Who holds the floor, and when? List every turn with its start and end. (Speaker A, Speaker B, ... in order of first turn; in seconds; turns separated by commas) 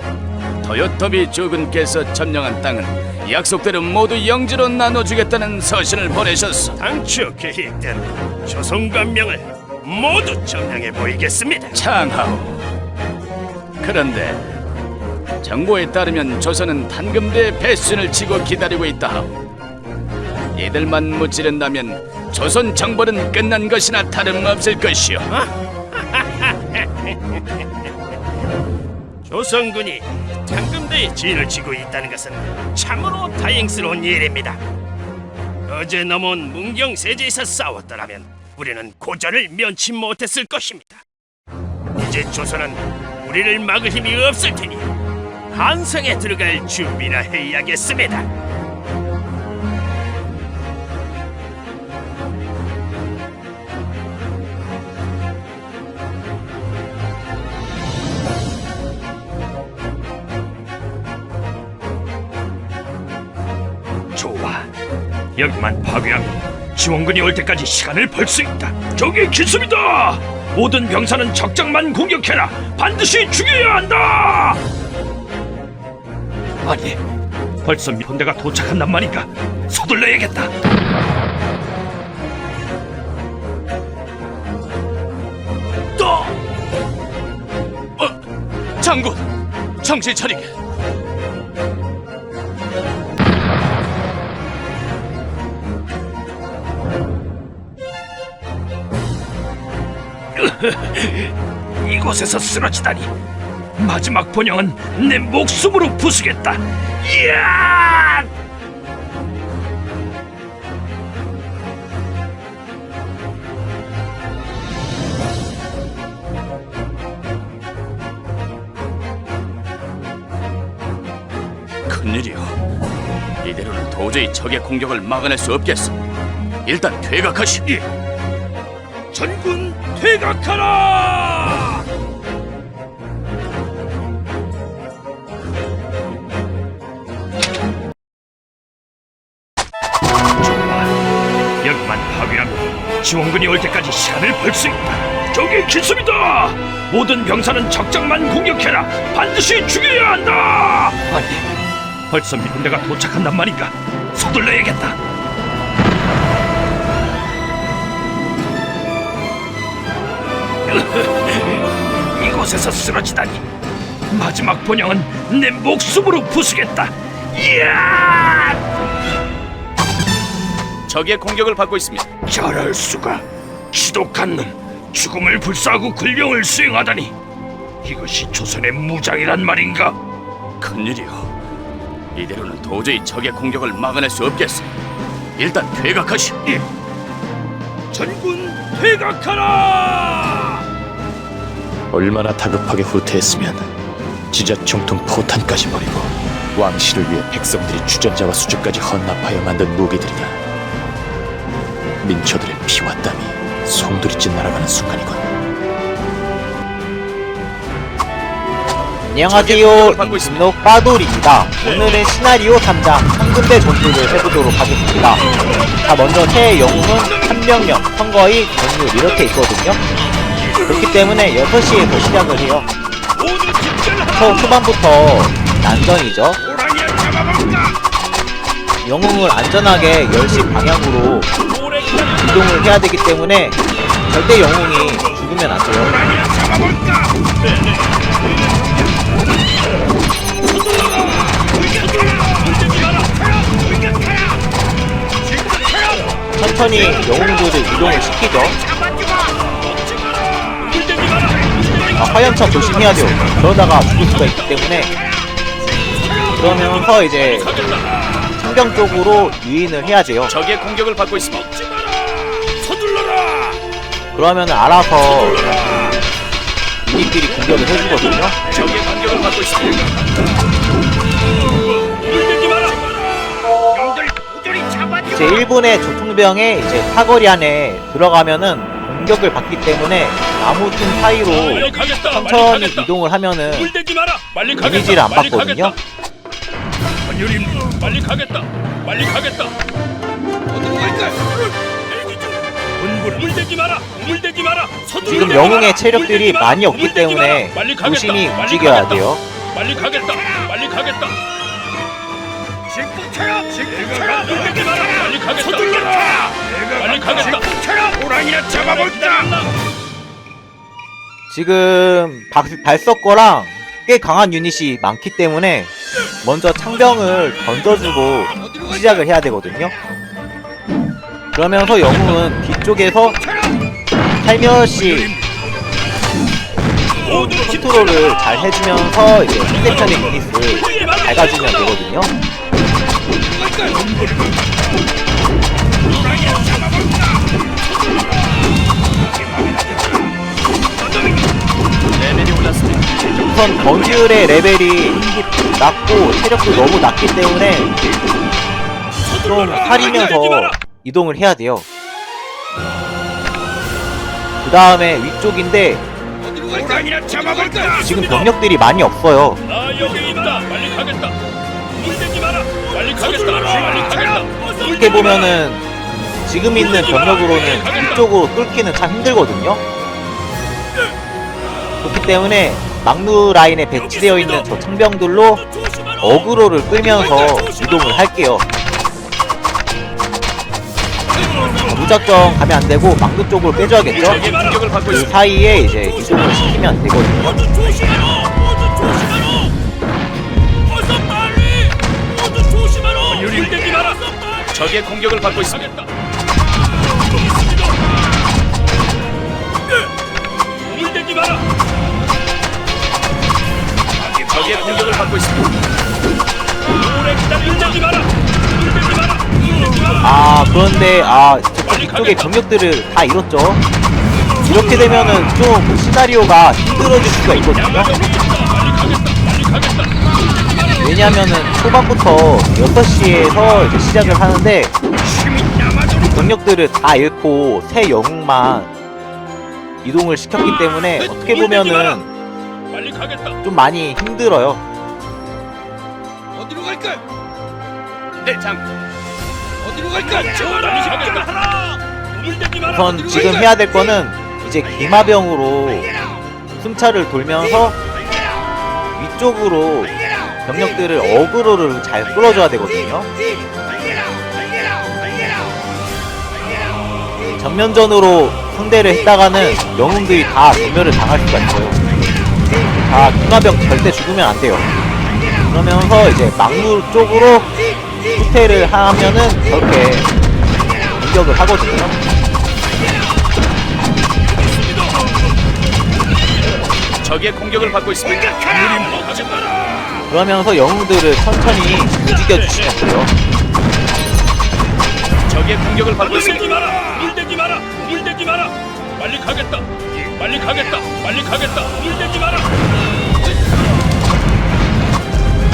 Speaker A: 0.6-6.8, Speaker B: 6.8-11.8, Speaker A: 11.7-12.7, Speaker A: 13.8-14.5, Speaker A: 15.4-19.4, Speaker A: 20.5-25.3, Speaker B: 25.3-27.4, Speaker B: 29.2-34.6, Speaker B: 35.7-41.0, Speaker B: 42.0-44.9, Speaker B: 45.5-48.3, Speaker C: 64.1-64.7, Speaker C: 65.3-74.6, Speaker C: 76.6-77.0, Speaker C: 77.6-80.5, Speaker A: 88.8-89.2, Speaker A: 89.8-90.5, Speaker C: 100.3-103.1, Speaker C: 103.8-108.3, Speaker A: 121.9-122.6, Speaker A: 123.4-126.0, Speaker A: 126.6-127.6, Speaker C: 129.1-131.8, Speaker C: 140.4-140.9, Speaker C: 141.6-151.4, Speaker C: 152.1-155.0, Speaker C: 160.7-163.4, Speaker C: 164.1-168.6, Speaker A: 170.9-172.1, Speaker C: 172.2-177.1, Speaker C: 177.8-179.9, Speaker A: 180.6-181.3, Speaker A: 182.1-184.7, Speaker A: 185.4-186.4, Speaker C: 187.9-190.6, Speaker D: 191.9-193.7, Speaker D: 194.3-200.4, Speaker D: 202.0-205.3, Speaker E: 209.1-219.8, Speaker A: 209.2-210.5, Speaker E: 220.6-222.7, Speaker C: 223.1-224.4, Speaker E: 224.1-226.4, Speaker C: 226.6-227.7, Speaker E: 228.8-231.3, Speaker C: 231.5-232.3, Speaker E: 232.2-236.2, Speaker C: 236.3-236.8, Speaker C: 240.5-243.2, Speaker B: 243.8-244.2, Speaker C: 245.3-246.2, Speaker E: 246.4-248.6, Speaker C: 249.7-252.0, Speaker E: 251.9-254.9, Speaker C: 256.1-256.4, Speaker E: 256.4-257.6, Speaker C: 257.5-258.2, Speaker E: 258.4-260.3, Speaker A: 260.3-261.5, Speaker C: 261.6-263.6, Speaker E: 264.1-265.6, Speaker C: 265.4-265.9, Speaker E: 266.8-268.4, Speaker A: 268.5-270.0, Speaker C: 272.1-272.8, Speaker B: 274.0-275.0, Speaker E: 275.1-283.7, Speaker C: 281.8-282.1, Speaker C: 283.8-285.4, Speaker E: 284.5-285.8, Speaker C: 287.1-289.5, Speaker B: 290.5-291.2, Speaker C: 291.9-295.8, Speaker E: 295.0-299.2, Speaker C: 297.5-298.3, Speaker C: 299.5-301.1, Speaker C: 302.8-309.5, Speaker B: 307.4-308.0, Speaker E: 311.3-315.7, Speaker E: 316.2-319.7, Speaker E: 321.3-323.2, Speaker E: 324.2-325.1, Speaker E: 327.0-332.1, Speaker B: 333.4-333.7, Speaker C: 333.7-334.4, Speaker A: 341.9-344.1, Speaker E: 343.2-347.7, Speaker E: 349.2-351.6, Speaker E: 354.4-355.8, Speaker B: 356.2-357.6, Speaker E: 357.7-359.4, Speaker C: 359.5-361.1, Speaker C: 361.8-364.5, Speaker E: 364.6-365.6, Speaker E: 366.2-369.6, Speaker E: 371.8-378.4, Speaker E: 381.6-384.3, Speaker A: 384.0-385.1, Speaker E: 384.8-387.8, Speaker C: 387.8-389.5, Speaker C: 390.7-394.4, Speaker A: 393.1-393.4, Speaker A: 394.5-395.7, Speaker C: 395.6-395.9, Speaker C: 397.3-397.6, Speaker C: 400.7-401.4, Speaker C: 404.1-404.4, Speaker A: 404.2-405.6, Speaker C: 406.9-408.1, Speaker C: 408.7-409.1, Speaker E: 410.0-413.6, Speaker E: 414.4-418.0, Speaker C: 417.8-419.8, Speaker E: 420.8-424.7, Speaker C: 425.2-426.0, Speaker E: 426.0-428.7, Speaker E: 429.8-432.1, Speaker C: 431.2-431.9, Speaker C: 432.7-433.4, Speaker E: 433.4-434.6, Speaker B: 436.4-437.0, Speaker A: 438.2-438.6, Speaker B: 439.6-440.1, Speaker A: 440.2-441.0, Speaker C: 440.4-442.6, Speaker E: 442.7-445.9, Speaker E: 446.6-447.8, Speaker E: 448.9-449.9, Speaker E: 450.4-453.1, Speaker E: 457.4-461.8, Speaker E: 462.7-464.7, Speaker E: 465.5-467.5, Speaker E: 468.1-470.1, Speaker E: 470.9-471.9, Speaker C: 474.4-474.9, Speaker A: 477.0-478.7, Speaker C: 478.5-480.0, Speaker E: 480.1-483.1, Speaker A: 485.2-487.2, Speaker C: 487.2-489.6, Speaker C: 490.2-492.2